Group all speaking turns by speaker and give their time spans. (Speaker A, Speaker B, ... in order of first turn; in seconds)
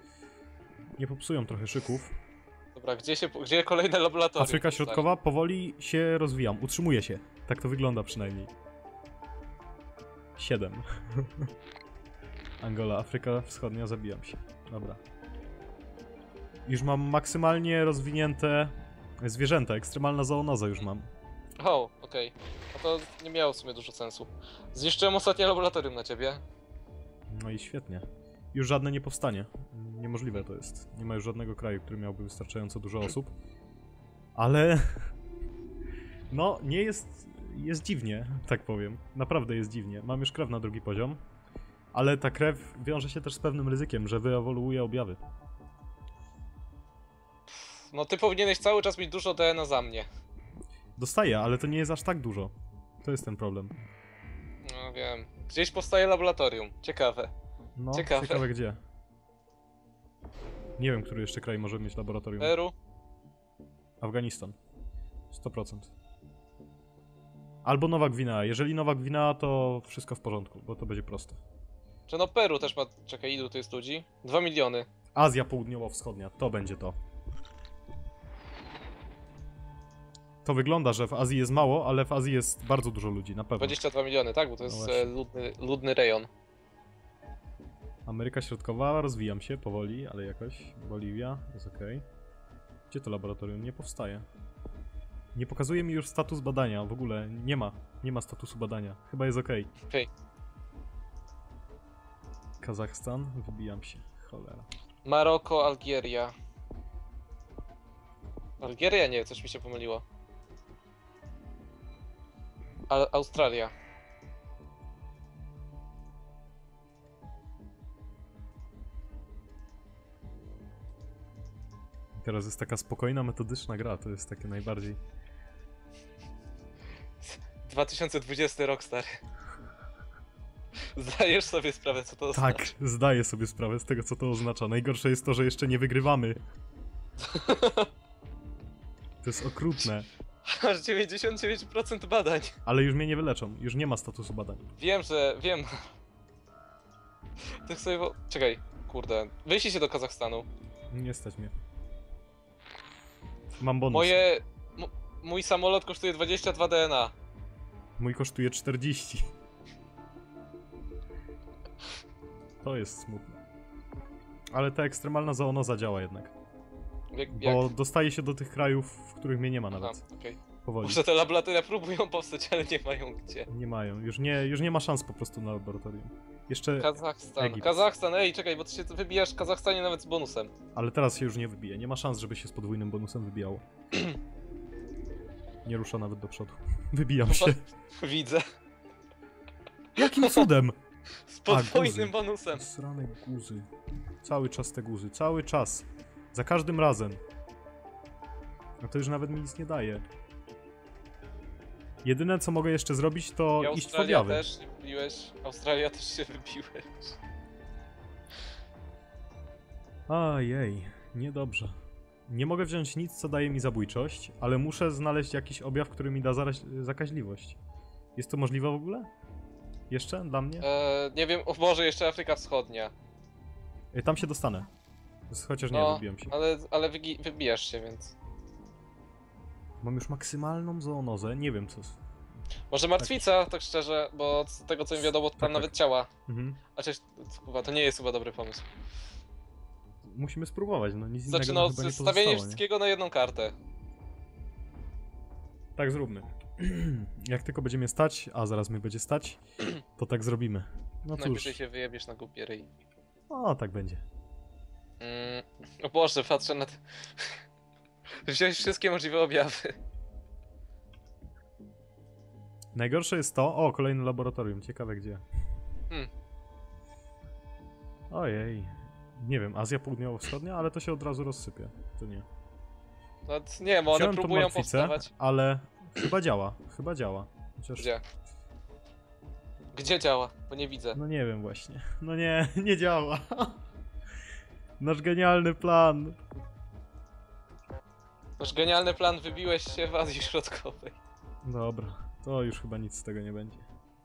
Speaker A: 1.0-2.1, 4.4-8.5, 10.4-11.5, 12.6-15.0, 16.7-21.1, 27.3-33.3, 34.4-35.1, 36.3-41.2, 41.9-45.2, 51.0-53.8, 57.8-58.8, 60.8-62.5, 64.0-64.6, 65.3-65.9, 67.6-71.4, 75.2-77.0, 80.4-83.8, 84.7-85.1, 88.1-92.0, 92.9-94.3, 95.3-99.7, 102.6-104.7, 122.2-125.0, 132.3-136.4, 139.2-140.1, 142.7-144.7, 150.9-151.6, 153.6-154.2, 158.0-159.3, 162.6-163.4, 164.5-166.3, 167.3-170.0, 170.6-171.0, 173.5-177.8, 180.7-183.7, 185.7-187.6, 190.0-190.8, 191.5-193.7, 194.2-197.2, 198.8-200.0, 202.0-204.5, 210.1-217.6, 218.2-219.1, 219.9-220.7, 223.9-224.7, 225.3-226.3, 229.8-232.0, 233.0-233.3, 235.4-235.7, 236.3-236.6, 240.1-242.6, 245.8-249.4, 250.0-251.6, 253.3-254.0, 262.7-265.2, 268.1-272.3, 273.9-277.9, 280.9-283.6, 284.8-286.2, 291.4-293.7
Speaker B: 2.8-5.0, 21.6-26.4, 47.7-50.1, 54.6-57.3, 57.9-58.5, 62.4-62.7, 72.1-74.9, 83.6-86.3, 105.0-106.3, 108.6-110.0, 112.9-113.7, 127.2-129.2, 130.9-132.7, 137.2-137.9, 140.4-142.6, 144.8-145.9, 147.7-150.5, 153.9-157.1, 167.1-167.7, 169.8-173.5, 176.8-180.5, 187.3-188.4, 190.1-190.5, 191.3-192.7, 203.6-207.2, 220.6-222.9, 225.7-228.1, 232.7-236.1, 236.8-238.7, 241.3-243.6, 251.2-252.7, 255.0-257.4, 258.2-259.8, 273.3-275.1, 279.7-281.0, 288.4-291.0